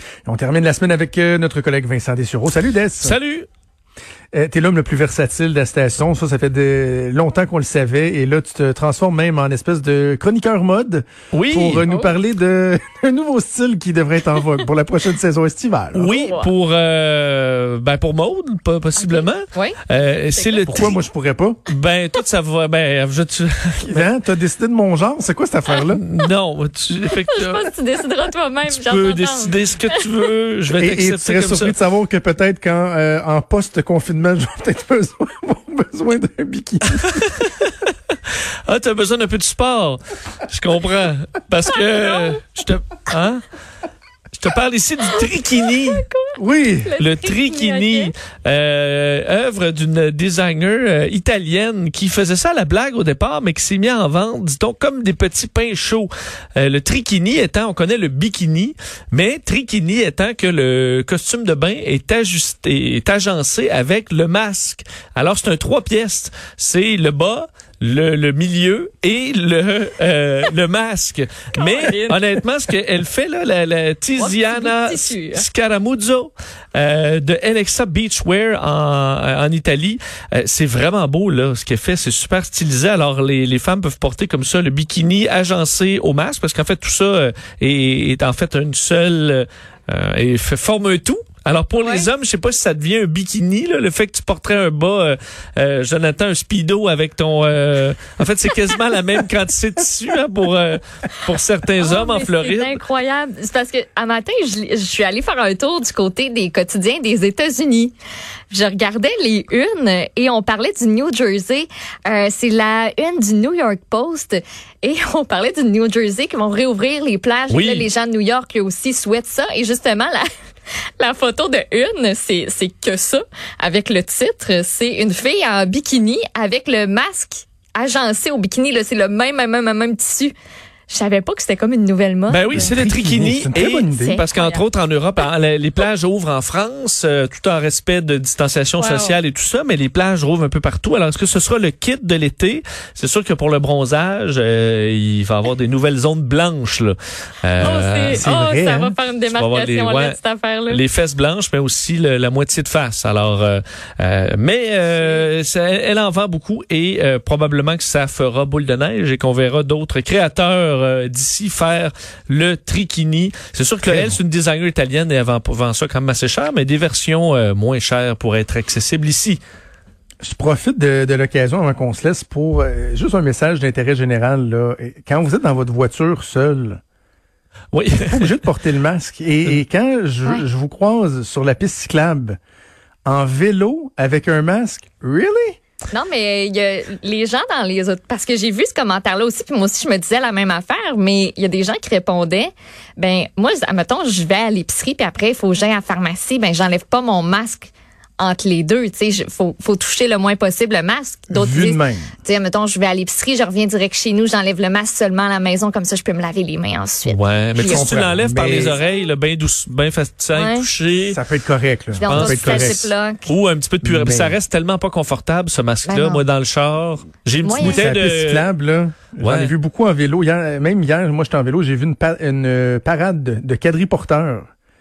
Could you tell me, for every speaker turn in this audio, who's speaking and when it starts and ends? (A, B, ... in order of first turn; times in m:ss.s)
0:00.2-0:03.2 A
0:03.0-0:03.4 B
0:04.3-0:16.0 A
0:11.3-0:11.9 B
0:11.8-0:12.2 C
0:15.9-0:21.0 B
0:16.1-0:16.5 C
0:19.0-0:20.9 C
0:20.7-0:21.6 A
0:21.7-0:24.1 B
0:23.9-0:26.0 A
0:25.7-0:26.2 C
0:25.7-0:27.7 B
0:27.1-0:30.0 C
0:28.6-0:31.7 B
0:30.8-0:36.9 A
0:37.0-0:37.7 B
0:38.6-0:43.4 B
0:42.0-0:42.3 C
0:44.3-0:46.0 B
0:45.1-0:48.1 C
0:46.4-0:46.9 A
0:47.0-1:42.8 B
1:11.6-1:12.2 C
1:14.2-1:15.4 C
1:31.8-1:32.1 C
1:41.8-1:47.9 C
1:48.5-2:00.2 C
1:57.5-1:57.9 B
2:01.0-2:10.3 C
2:10.9-2:12.7 C
2:12.3-2:28.2 B
2:12.8-2:14.1 A
2:13.8-2:14.6 C
2:18.8-2:19.2 C
2:27.6-2:30.8 C
2:28.2-2:28.9 A
2:29.2-2:49.4 B
2:34.9-2:35.3 C
2:43.8-2:44.2 A
2:50.2-2:56.8 A
2:57.7-2:58.4 B
2:58.1-3:02.4 A
3:03.0-3:05.6 A
3:05.9-3:27.8 C
3:21.3-3:22.1 A
3:27.0-3:31.2 B
3:27.6-3:28.7 A
3:30.3-3:30.6 C
3:31.1-3:32.0 A
3:31.9-3:33.3 C
3:32.0-3:38.5 B
3:33.8-3:34.4 A
3:35.8-3:36.2 C
3:37.4-3:37.9 C
3:37.8-3:44.5 A
3:39.2-3:39.5 B